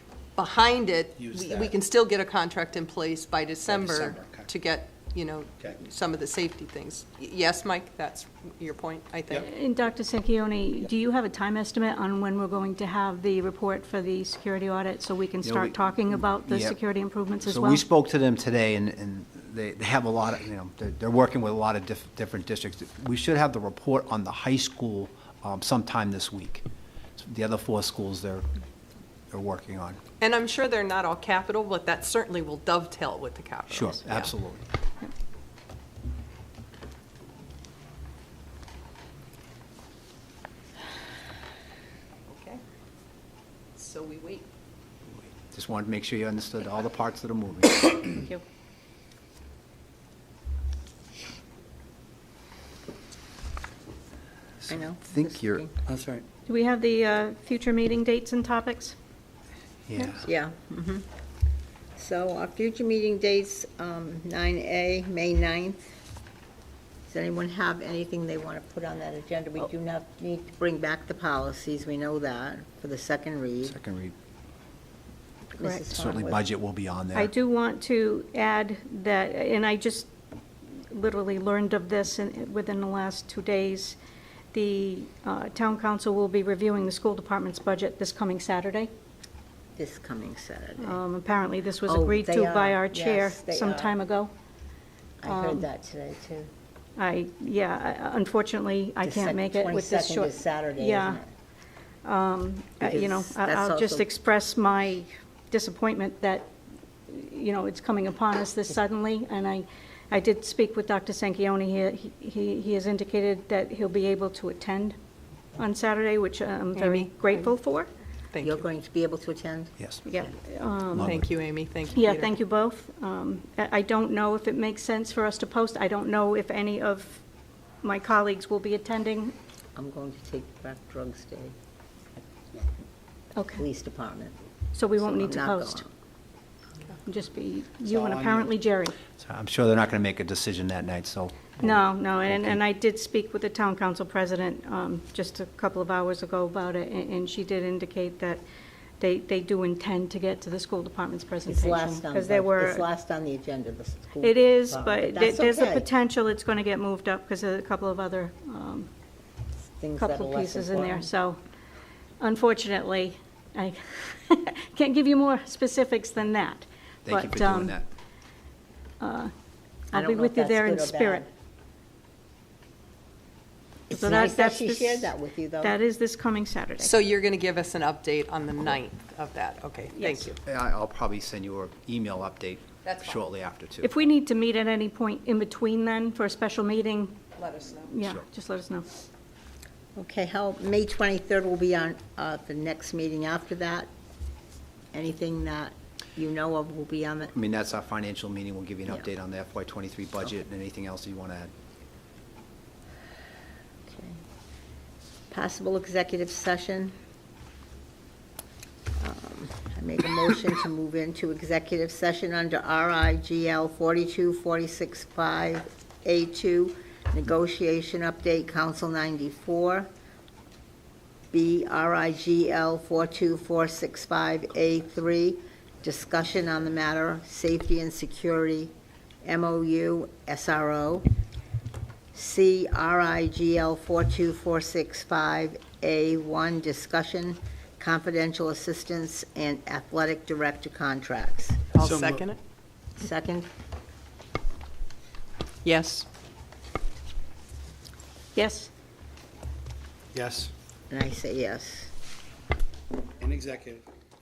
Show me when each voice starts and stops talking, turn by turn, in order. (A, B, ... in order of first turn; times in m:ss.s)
0:00.4-0:09.5 A
0:01.2-0:01.8 B
0:03.7-0:04.4 B
0:09.4-0:17.8 C
0:15.4-0:16.8 D
0:17.4-0:26.6 D
0:27.2-0:28.5 D
0:29.3-0:30.0 D
0:30.2-0:34.3 A
0:33.7-0:34.6 D
0:42.3-0:42.6 A
0:43.8-0:44.4 A
0:45.4-0:48.2 D
0:48.2-0:48.4 C
0:54.6-0:55.6 D
0:54.7-0:55.7 E
0:55.9-0:56.2 B
0:56.5-0:59.0 C
0:59.9-1:00.3 D
1:00.0-1:00.2 C
1:00.2-1:01.1 E
1:02.0-1:05.8 E
1:07.1-1:13.8 E
1:13.6-1:14.2 D
1:15.5-1:16.4 E
1:15.6-1:15.8 C
1:15.9-1:17.3 D
1:17.1-1:20.1 C
1:20.9-1:24.0 C
1:24.5-1:28.9 C
1:29.8-1:31.0 E
1:30.8-1:34.3 C
1:31.8-1:33.9 E
1:35.2-1:36.5 E
1:35.2-1:35.6 C
1:37.0-1:41.2 C
1:39.0-1:41.2 E
1:42.0-1:46.5 C
1:42.8-1:44.1 E
1:47.1-1:55.0 C
1:55.6-1:57.9 C
1:56.7-1:57.5 A
1:58.3-1:58.6 A
1:58.4-2:00.3 E
1:59.8-2:00.0 D
2:00.0-2:01.1 C
2:00.9-2:01.3 D
2:01.0-2:02.3 A
2:01.9-2:07.2 C
2:07.8-2:09.3 C
2:09.7-2:11.5 E
2:13.4-2:13.6 C
2:13.6-2:14.3 E
2:14.7-2:15.8 C
2:15.0-2:15.9 E
2:17.0-2:19.0 C
2:17.8-2:18.5 B
2:19.2-2:22.6 D
2:21.6-2:28.4 C
2:29.0-2:32.9 C
2:31.5-2:35.9 E
2:34.2-2:38.9 C
2:39.8-2:41.1 E
2:40.0-2:41.4 C
2:42.2-2:47.8 C
2:47.0-2:47.9 D
2:49.0-2:49.3 C
2:49.9-2:51.2 C
2:49.9-2:51.3 E
2:53.9-2:55.7 E
2:53.9-2:57.0 C
2:56.8-3:00.4 A
3:00.0-3:00.3 C
3:00.4-3:03.9 D
3:02.8-3:03.2 A
3:03.8-3:07.2 C
3:07.4-3:07.9 A
3:07.8-3:08.8 C
3:10.0-3:13.9 E
3:14.9-3:17.3 E
3:17.3-3:21.5 D
3:23.9-3:24.2 E
3:25.3-3:26.9 E
3:29.0-3:39.9 E
3:41.3-3:48.7 E
3:49.2-3:51.1 E
3:52.1-4:01.6 E
4:01.7-4:02.4 A
4:01.8-4:02.2 B
4:03.0-4:03.5 E
4:05.6-4:06.0 A
4:08.3-4:08.7 C
4:10.1-4:10.5 B
4:10.9-4:11.9 E
4:13.2-4:13.8 B